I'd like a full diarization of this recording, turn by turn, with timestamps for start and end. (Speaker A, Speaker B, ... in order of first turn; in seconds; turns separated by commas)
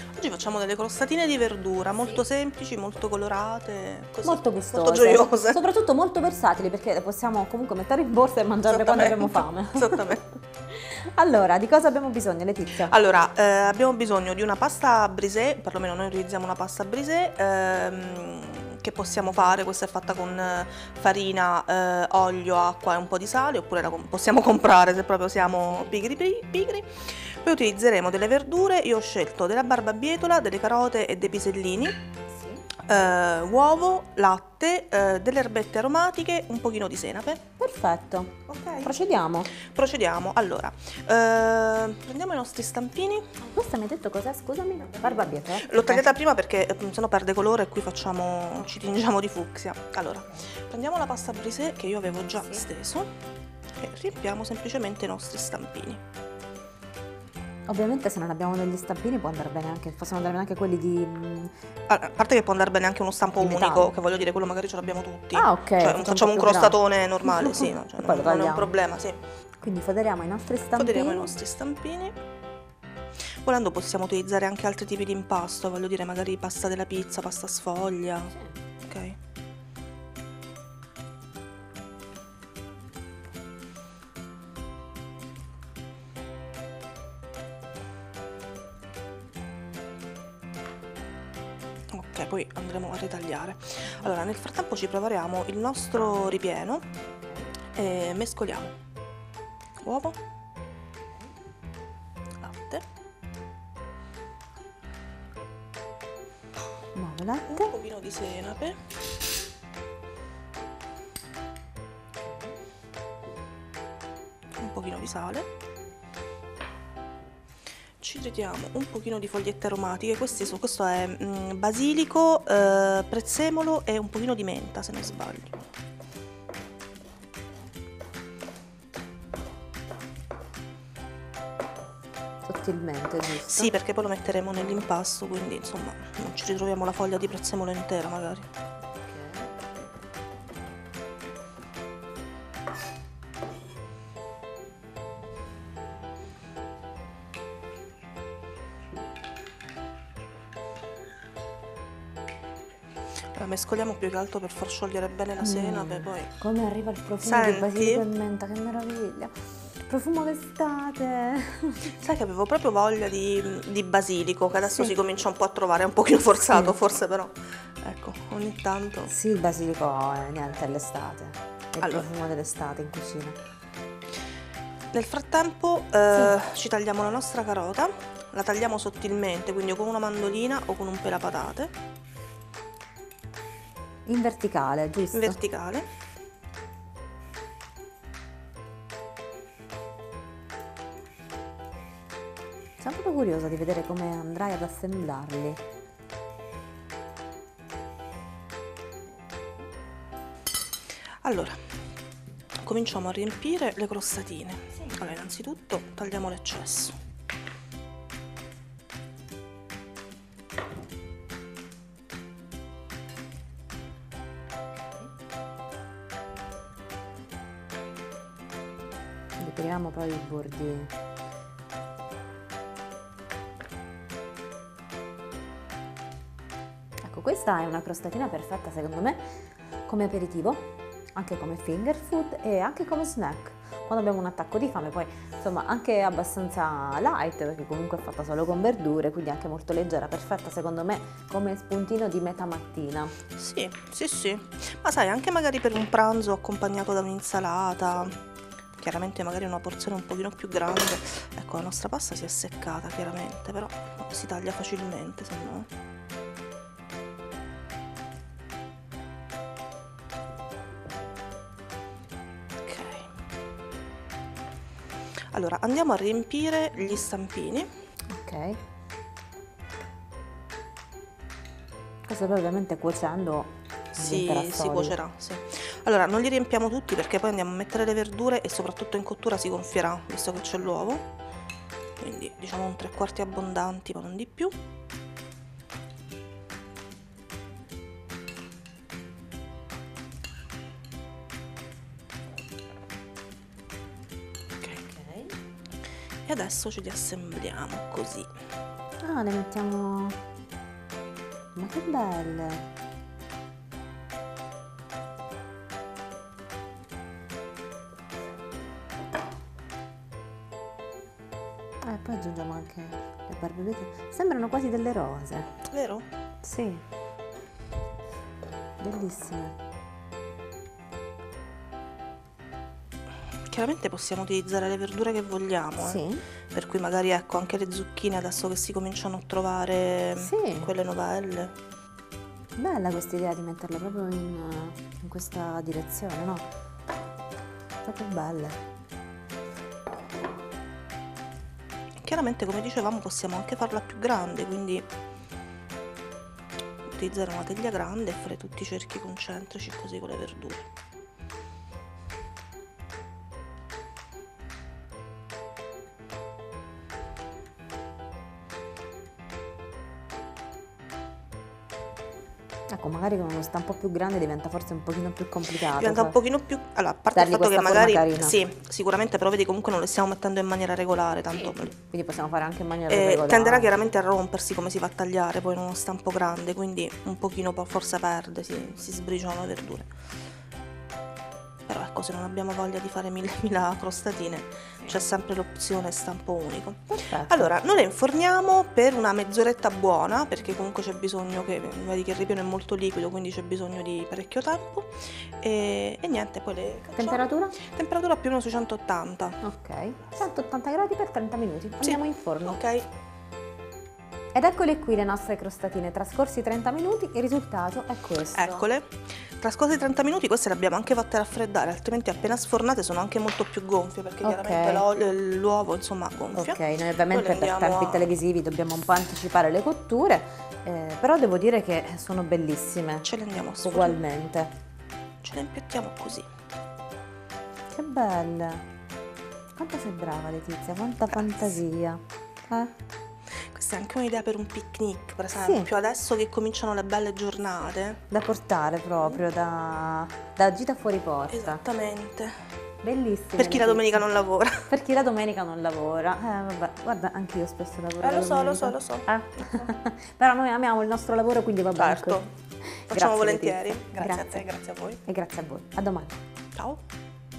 Speaker A: 0.1-5.6, Speaker B: 4.2-10.2, Speaker A: 8.7-10.2, Speaker B: 10.7-12.9, Speaker A: 12.8-32.0, Speaker B: 32.3-32.7, Speaker A: 32.8-37.4, Speaker B: 37.6-39.6, Speaker A: 38.5-38.9, Speaker A: 39.6-43.3, Speaker B: 43.5-46.0, Speaker A: 45.5-53.1, Speaker B: 52.3-52.6, Speaker A: 53.8-56.0, Speaker B: 57.7-61.5, Speaker A: 61.9-69.2, Speaker B: 63.3-63.9, Speaker B: 65.3-68.8, Speaker B: 69.6-71.4, Speaker A: 70.7-72.2, Speaker A: 73.4-78.3, Speaker B: 78.3-78.5, Speaker A: 78.8-79.2, Speaker A: 91.9-96.8, Speaker B: 97.1-97.5, Speaker A: 97.7-98.7, Speaker A: 99.8-100.2, Speaker A: 102.4-102.8, Speaker B: 106.9-107.7, Speaker A: 107.5-108.8, Speaker A: 114.5-115.5, Speaker A: 118.0-125.6, Speaker B: 132.4-133.7, Speaker A: 133.4-138.5, Speaker B: 139.0-139.5, Speaker A: 153.3-156.3, Speaker B: 155.4-159.3, Speaker A: 157.2-158.0, Speaker B: 159.8-161.9, Speaker A: 161.9-169.1, Speaker B: 164.6-164.9, Speaker B: 169.1-173.3, Speaker A: 171.8-172.1, Speaker A: 174.9-181.7, Speaker B: 184.1-185.4, Speaker A: 185.1-185.9, Speaker B: 192.8-195.6, Speaker A: 201.2-201.6, Speaker A: 202.6-206.9, Speaker B: 219.4-220.9, Speaker B: 227.0-229.2, Speaker B: 229.9-243.2, Speaker A: 243.3-248.2, Speaker A: 248.8-255.7, Speaker A: 262.6-263.1, Speaker A: 265.3-267.7, Speaker B: 268.1-268.6, Speaker B: 272.1-275.0, Speaker A: 273.9-281.1, Speaker A: 282.0-284.5, Speaker B: 294.6-295.3, Speaker A: 296.2-298.3, Speaker B: 299.0-300.2, Speaker B: 301.5-302.6, Speaker B: 311.8-315.5, Speaker A: 315.7-316.0, Speaker B: 316.4-316.8, Speaker B: 318.8-319.6, Speaker A: 323.5-331.5, Speaker B: 325.8-326.2, Speaker B: 330.1-330.7, Speaker B: 332.6-336.4, Speaker B: 337.8-338.6, Speaker A: 342.0-344.9, Speaker A: 346.9-350.7, Speaker B: 362.7-366.2, Speaker A: 365.7-371.8, Speaker B: 367.1-368.4, Speaker B: 371.8-373.7, Speaker A: 372.9-379.9, Speaker A: 381.7-399.4, Speaker B: 386.9-387.5, Speaker B: 396.9-397.6, Speaker B: 399.4-402.6, Speaker A: 401.8-402.9, Speaker B: 404.3-408.7, Speaker A: 408.3-418.1, Speaker B: 414.2-414.8, Speaker B: 416.3-423.1, Speaker A: 423.0-424.0, Speaker B: 423.6-424.5, Speaker A: 425.2-426.3, Speaker B: 427.7-428.6, Speaker B: 429.6-432.7, Speaker A: 431.1-431.6, Speaker A: 433.5-438.0, Speaker B: 435.3-435.7, Speaker B: 438.1-441.6, Speaker A: 441.3-442.4, Speaker B: 442.8-444.0, Speaker A: 443.4-444.7, Speaker B: 444.7-454.5, Speaker A: 448.0-449.6, Speaker A: 451.8-452.3, Speaker A: 452.9-455.0, Speaker B: 455.1-456.2, Speaker A: 456.5-456.8